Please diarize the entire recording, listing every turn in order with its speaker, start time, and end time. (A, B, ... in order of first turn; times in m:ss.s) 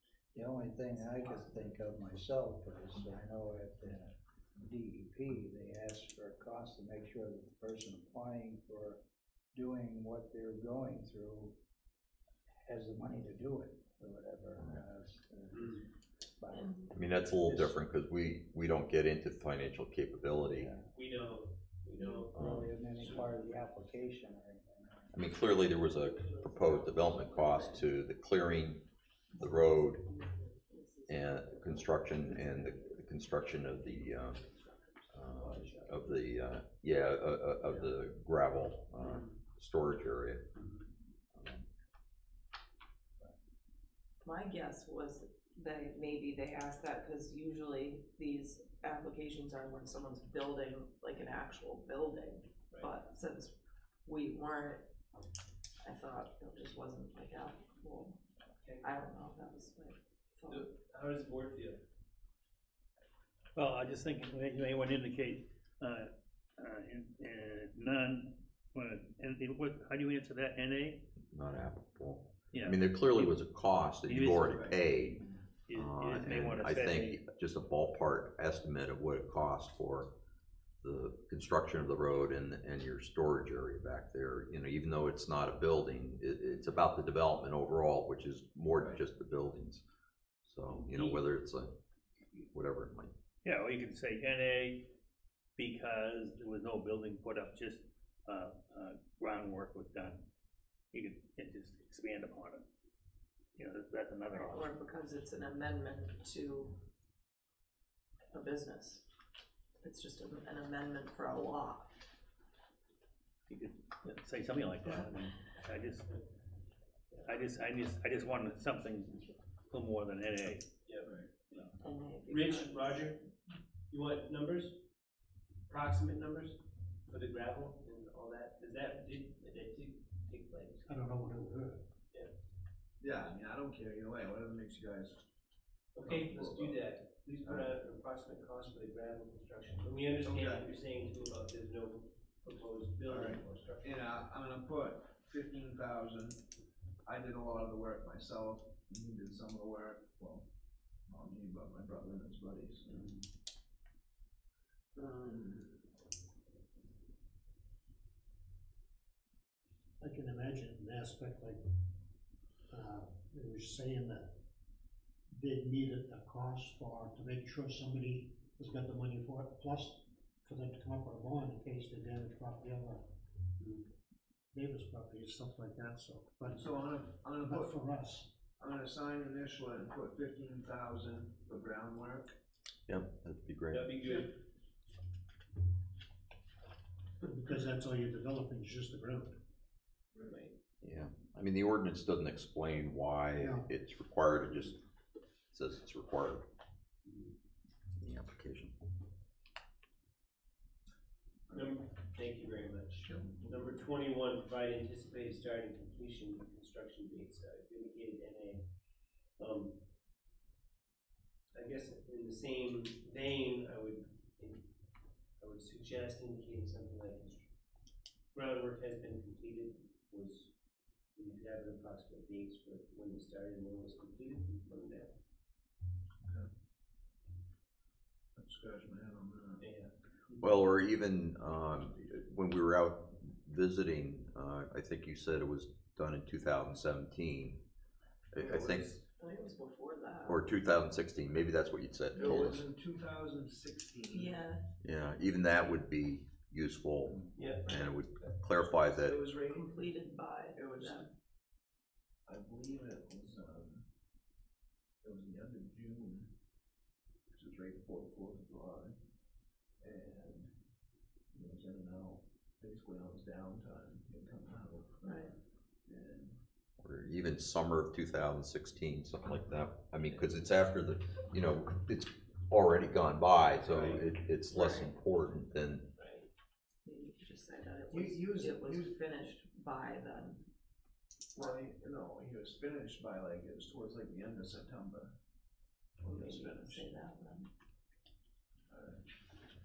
0:00.3-0:09.0 A
0:01.2-0:01.7 B
0:09.5-0:11.6 A
0:12.6-0:17.0 A
0:15.5-0:15.9 B
0:16.5-0:16.9 C
0:16.9-0:20.7 D
0:20.5-0:20.9 A
0:20.9-0:23.1 B
0:22.3-0:25.2 A
0:22.3-0:22.7 D
0:23.0-0:23.2 E
0:25.1-0:28.9 D
0:26.1-0:27.8 C
0:29.4-0:32.0 C
0:29.4-0:30.0 D
0:31.1-0:34.4 D
0:32.6-0:33.0 C
0:35.1-0:40.5 D
0:35.3-0:36.3 B
0:39.0-0:39.4 B
0:40.5-0:40.9 B
0:41.3-0:41.7 D
0:44.2-0:54.9 C
0:55.8-0:58.2 C
0:58.6-0:58.9 B
0:58.8-1:00.7 C
1:00.5-1:01.8 B
1:03.6-1:11.1 F
1:11.3-1:20.1 D
1:12.5-1:13.4 F
1:14.1-1:14.7 F
1:14.4-1:14.8 E
1:15.7-1:17.2 F
1:20.8-1:29.8 D
1:28.8-1:29.0 E
1:30.4-1:31.7 D
1:30.9-1:31.2 F
1:32.5-1:33.1 D
1:33.4-1:34.9 F
1:35.6-1:40.2 F
1:40.9-1:42.6 F
1:43.6-1:44.7 F
1:44.3-1:46.8 C
1:48.3-1:49.1 C
1:49.8-1:51.9 C
1:53.5-1:56.2 F
1:57.2-2:00.7 F
2:00.9-2:01.8 B
2:01.8-2:03.1 C
2:02.3-2:03.3 B
2:03.9-2:04.8 B
2:05.7-2:10.9 B
2:10.9-2:11.9 G
2:13.0-2:15.2 E
2:16.0-2:24.1 B
2:16.0-2:16.9 E
2:17.4-2:17.8 E
2:20.2-2:20.7 E
2:23.0-2:26.4 E
2:27.0-2:30.5 E
2:31.1-2:33.2 E
2:35.0-2:35.9 E
2:40.0-2:41.8 G
2:42.7-2:44.4 G
2:45.3-2:53.1 G
2:53.6-2:53.9 B
2:54.5-2:58.3 G
2:56.5-2:57.8 E
2:58.6-3:02.4 E
3:02.9-3:04.0 D
3:03.7-3:04.4 B
3:04.0-3:04.4 E
3:07.2-3:09.4 G
3:10.3-3:10.6 B
3:10.8-3:14.8 D
3:13.4-3:13.7 G
3:15.5-3:16.5 D
3:17.0-3:17.4 B
3:18.0-3:18.7 D
3:21.5-3:21.8 E
3:21.5-3:28.7 B
3:29.4-3:29.8 B
3:31.6-3:34.7 B
3:35.4-3:37.5 B
3:38.3-3:40.5 B
3:41.2-3:45.2 B
3:48.4-3:49.6 E
3:49.6-3:50.5 B
3:50.4-3:57.6 D
3:58.3-3:58.9 D
3:58.4-3:59.0 E
3:59.2-4:00.5 C
4:00.3-4:02.7 D
4:02.1-4:04.4 E
4:04.1-4:04.7 C
4:04.8-4:09.2 D
4:07.4-4:07.8 B
4:08.8-4:09.8 E
4:09.3-4:11.1 C
4:10.6-4:11.0 E
4:12.3-4:13.9 E
4:15.0-4:16.3 E
4:17.3-4:19.0 E
4:19.8-4:20.5 E
4:21.3-4:25.3 E
4:25.0-4:25.3 C
4:25.9-4:26.4 E
4:26.8-4:35.9 D
4:33.6-4:34.1 E
4:34.5-4:35.0 C
4:36.0-4:36.3 B
4:36.8-4:40.5 C
4:37.9-4:39.0 E
4:41.4-4:45.2 E
4:46.0-4:46.9 E
4:46.1-4:47.5 C
4:48.7-4:49.0 E